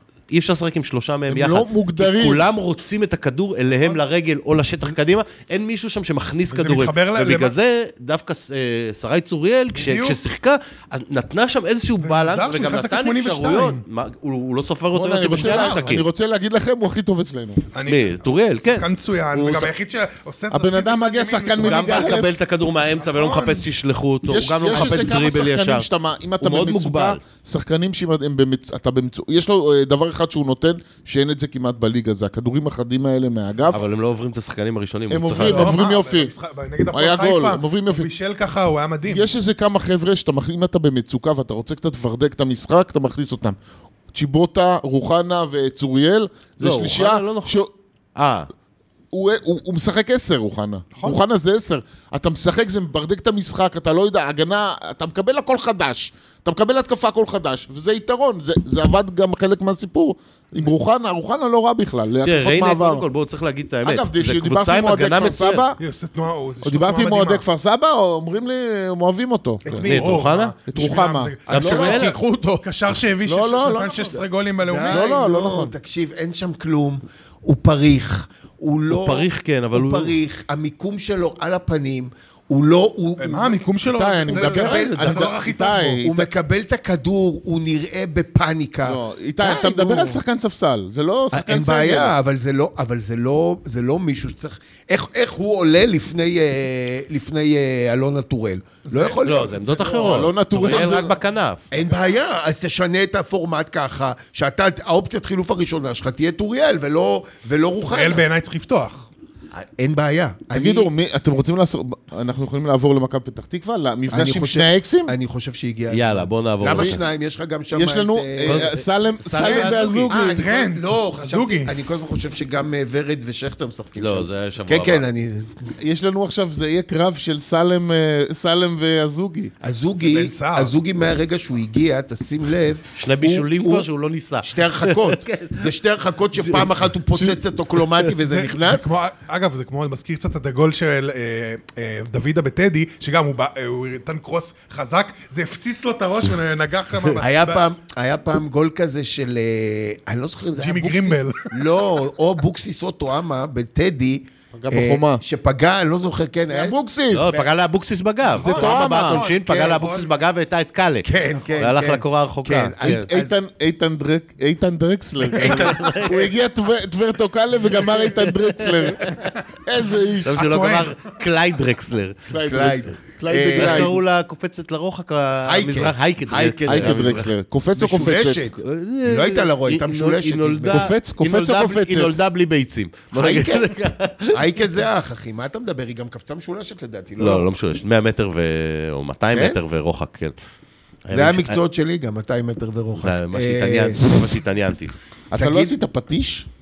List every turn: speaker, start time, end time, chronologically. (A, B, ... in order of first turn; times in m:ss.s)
0:00.3-0:16.0 A
0:01.3-0:02.4 B
0:06.5-0:07.5 C
0:09.7-0:10.2 C
0:12.0-0:13.8 C
0:14.9-0:17.6 B
0:15.4-0:15.9 C
0:17.7-0:22.3 C
0:17.8-0:19.7 A
0:20.5-0:22.3 B
0:21.6-0:25.8 A
0:22.9-0:23.6 C
0:24.3-0:33.8 B
0:24.7-0:25.0 C
0:26.4-0:27.2 A
0:33.7-0:35.8 A
0:35.1-0:36.3 B
0:35.3-0:39.3 C
0:36.9-0:38.1 B
0:39.1-0:43.6 B
0:44.1-0:47.7 B
0:46.6-0:47.5 A
0:48.2-0:48.5 A
0:49.1-1:03.0 B
1:02.2-1:05.6 A
1:03.8-1:05.8 B
1:05.8-1:07.4 C
1:06.6-1:09.9 B
1:09.6-1:10.1 D
1:09.8-1:15.1 C
1:09.8-1:10.5 A
1:10.7-1:11.3 B
1:11.5-1:12.6 D
1:11.5-1:12.2 A
1:13.2-1:14.2 B
1:14.6-1:23.6 D
1:14.8-1:15.7 B
1:18.9-1:20.2 A
1:23.2-1:26.0 C
1:23.9-1:26.3 B
1:24.3-1:25.4 D
1:26.0-1:30.2 D
1:28.8-1:32.2 B
1:31.3-1:40.0 D
1:38.8-1:40.0 C
1:39.2-1:41.6 A
1:39.8-1:41.2 B
1:41.7-1:48.2 D
1:47.9-1:49.1 C
1:49.8-1:50.9 D
1:50.5-1:55.1 B
1:54.1-1:58.7 D
1:55.9-1:57.0 A
1:57.7-2:00.4 B
1:58.4-2:00.1 A
1:59.3-2:05.7 D
2:00.1-2:01.7 C
2:04.0-2:05.1 A
2:05.8-2:09.5 B
2:09.6-2:13.9 D
2:10.0-2:10.7 C
2:13.0-2:15.7 A
2:14.4-2:18.9 D
2:16.3-2:16.7 A
2:17.1-2:17.4 B
2:18.2-2:27.6 C
2:27.2-2:37.5 D
2:30.6-2:31.5 C
2:34.5-2:35.2 B
2:36.5-2:37.4 B
2:37.1-2:43.1 A
2:38.3-2:40.1 C
2:38.4-2:39.2 B
2:39.5-2:39.8 D
2:41.0-2:43.4 D
2:42.8-2:50.6 B
2:45.3-2:46.3 A
2:45.3-2:46.0 D
2:49.0-2:49.3 A
2:50.2-2:52.4 A
2:50.3-2:50.9 C
2:52.3-2:54.0 B
2:52.4-2:53.9 D
2:53.5-2:57.3 A
2:55.4-2:57.2 D
2:56.7-2:58.5 B
2:57.8-3:00.9 D
2:58.6-3:04.4 A
3:00.7-3:02.1 B
3:03.1-3:03.8 D
3:04.3-3:07.5 D
3:07.2-3:10.3 A
3:09.3-3:09.6 D
3:11.0-3:11.6 A
3:11.1-3:14.3 D
3:13.0-3:14.9 A
3:15.3-3:16.4 B
3:15.4-3:15.7 D